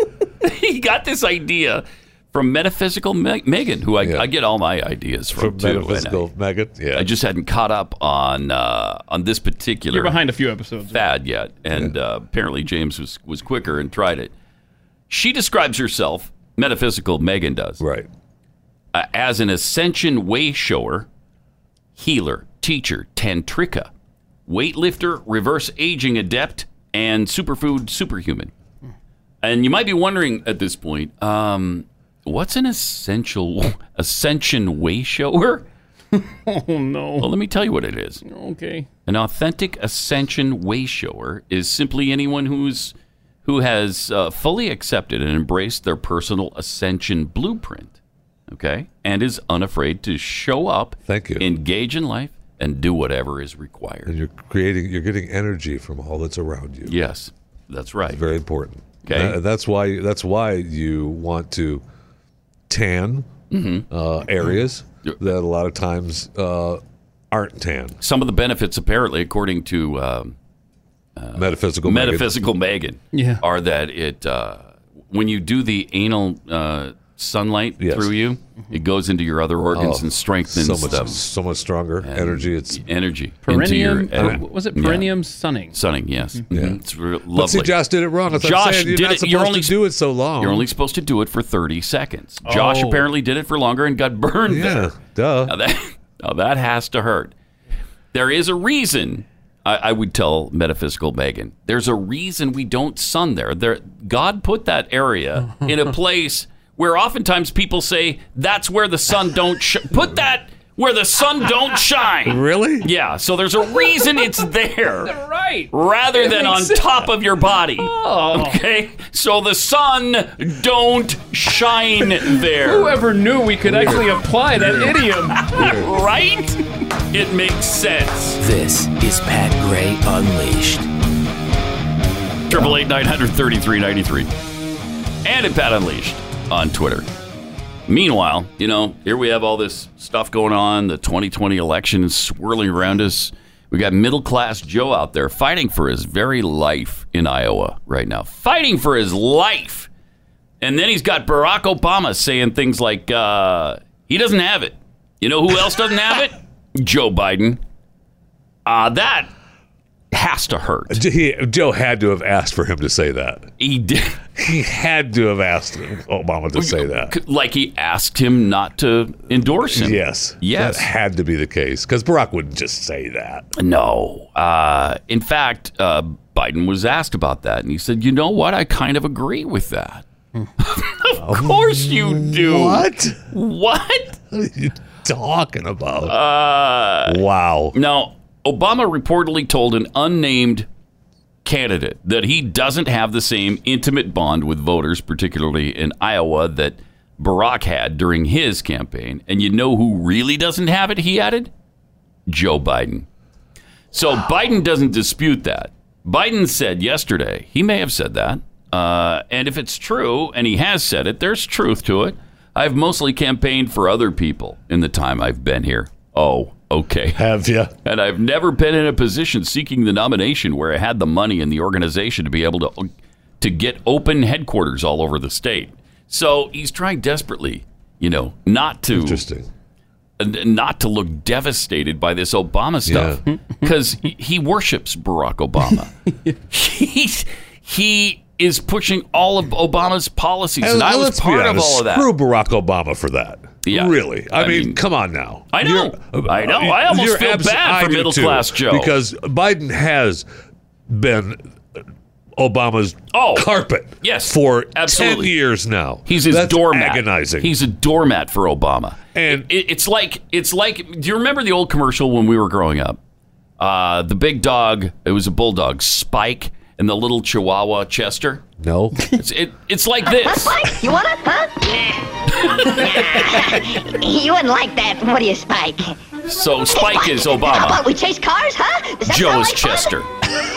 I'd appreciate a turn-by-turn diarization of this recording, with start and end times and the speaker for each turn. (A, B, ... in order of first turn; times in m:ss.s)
0:00.4-0:06.3 A
0:04.0-0:04.3 B
0:05.3-0:07.1 B
0:06.9-0:10.2 A
0:09.9-0:11.0 C
0:10.9-0:14.3 A
0:15.1-0:17.8 A
0:17.8-0:18.1 B
0:18.9-0:21.1 A
0:22.0-0:23.9 A
0:24.4-0:28.5 A
0:29.4-0:35.6 A
0:36.1-0:37.3 C
0:37.2-0:38.2 A
0:38.2-0:38.9 C
0:39.0-0:48.0 A
0:48.5-0:54.1 A
0:51.0-0:51.5 B
0:54.0-0:56.9 B
0:56.8-0:58.2 A
0:58.1-1:01.8 B
0:59.0-0:59.4 A
1:02.7-1:03.3 B
1:03.5-1:03.9 A
1:03.9-1:06.8 B
1:07.3-1:08.0 B
1:08.0-1:10.4 A
1:11.2-1:21.2 A
1:11.3-1:12.3 B
1:13.1-1:13.4 C
1:17.8-1:18.1 B
1:19.7-1:22.8 B
1:22.0-1:25.1 A
1:23.4-1:25.8 C
1:24.1-1:24.4 B
1:25.7-1:29.8 A
1:26.5-1:26.8 B
1:27.3-1:30.6 B
1:30.4-1:34.9 A
1:32.4-1:33.1 C
1:34.5-1:35.5 B
1:35.4-1:37.3 A
1:38.1-1:55.1 A
1:52.2-1:52.9 B
1:55.0-1:57.1 C
1:55.7-2:03.0 A
1:57.8-1:58.6 C
2:02.3-2:05.8 C
2:03.6-2:04.9 B
2:05.4-2:06.6 A
2:05.5-2:05.9 B
2:07.1-2:08.4 A
2:08.4-2:10.9 D
2:12.5-2:14.3 A
2:15.2-2:17.1 A
2:17.9-2:29.9 A
2:30.6-2:37.6 A
2:38.6-2:39.3 A
2:40.1-2:41.0 A
2:40.9-2:43.5 B
2:43.6-2:44.2 A
2:44.4-2:47.1 B
2:46.5-2:50.9 A
2:49.7-2:53.4 B
2:53.6-3:00.0 A
3:00.6-3:04.2 A
3:01.2-3:03.2 B
3:04.3-3:06.2 B
3:06.0-3:10.7 A
3:07.0-3:07.7 B
3:11.4-3:21.5 A
3:22.3-3:23.1 A
3:23.9-3:37.2 A
3:37.1-3:37.7 B
3:37.8-3:42.9 A
3:43.4-3:49.2 A
3:48.9-3:49.5 B
3:50.2-3:55.9 A
3:52.8-3:53.2 B
3:56.5-4:02.1 A
4:00.6-4:10.2 B
4:03.6-4:04.8 A
4:05.5-4:09.0 A
4:10.9-4:11.4 B
4:12.4-4:17.5 B
4:13.1-4:15.3 A
4:16.0-4:23.0 A
4:19.1-4:19.5 B
4:23.6-4:28.4 A
4:28.6-4:29.1 B
4:29.1-4:30.7 A
4:30.2-4:32.0 E
4:32.4-4:33.3 A
4:32.6-4:35.9 E
4:36.2-4:37.8 A
4:36.7-4:39.9 E
4:39.0-4:40.1 A